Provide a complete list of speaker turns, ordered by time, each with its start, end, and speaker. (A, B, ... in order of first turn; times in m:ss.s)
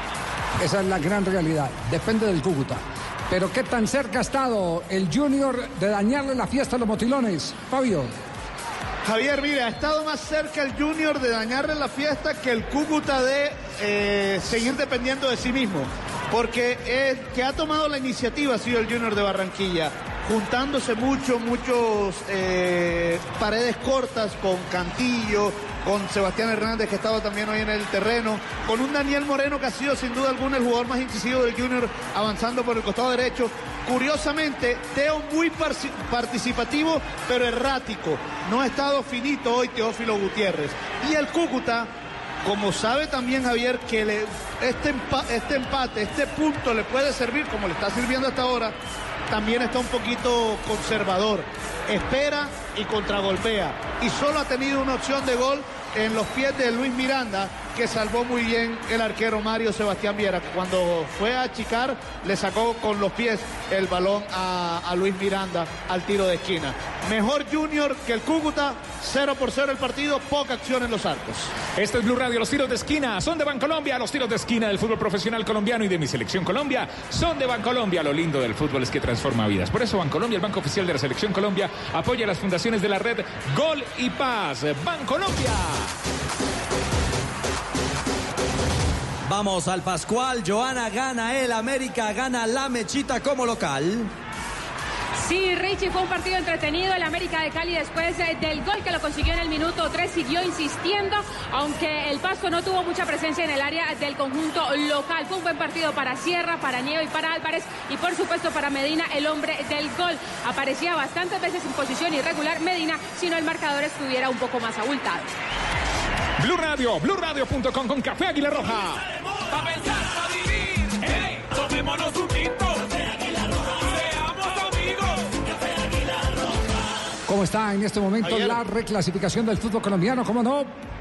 0:00.6-0:08.1 A
0:09.0-0:41.9 B
0:42.4-0:48.7 B
0:49.3-1:11.5 B
1:11.8-1:25.9 C
1:29.3-1:34.1 D
1:35.2-1:55.2 E
1:56.4-1:59.0 C
1:58.6-2:06.8 F
2:07.3-2:10.7 A
2:08.2-2:08.6 B